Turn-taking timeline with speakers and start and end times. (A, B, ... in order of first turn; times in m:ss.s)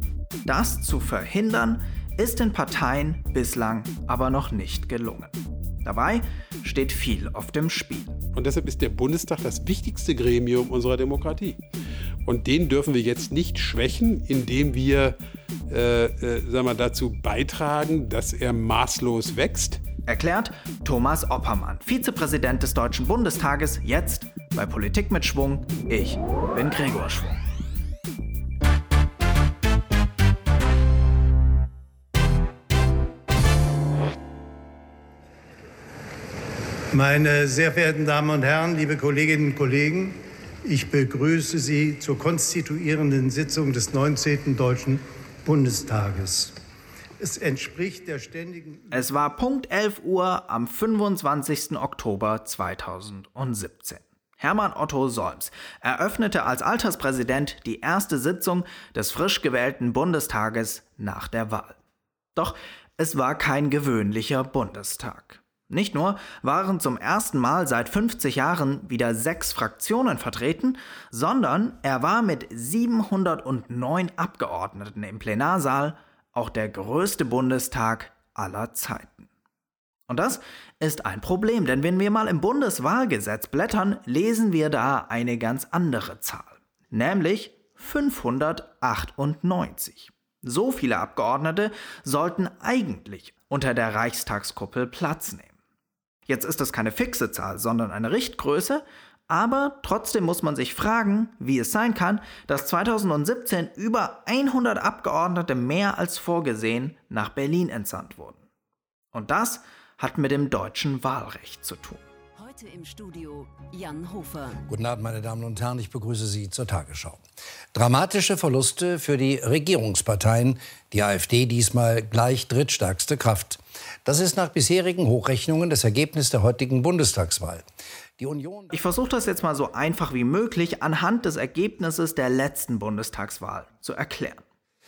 0:00.4-0:08.2 A
0:08.3-0:11.6 B
0:12.2-0:15.2 B
0:15.7-0:19.8 B
0:20.1-0:27.4 A
0:36.9-0:46.5 C
0:47.2-0:48.9 C
0:48.9-1:01.8 A
1:02.4-1:19.3 A
1:20.1-1:35.5 A
1:36.2-1:48.4 A
1:49.1-1:52.0 A
1:52.4-1:54.6 D
1:54.7-1:57.2 E
1:57.7-2:07.6 E
2:08.2-2:08.7 E
2:08.7-2:14.4 A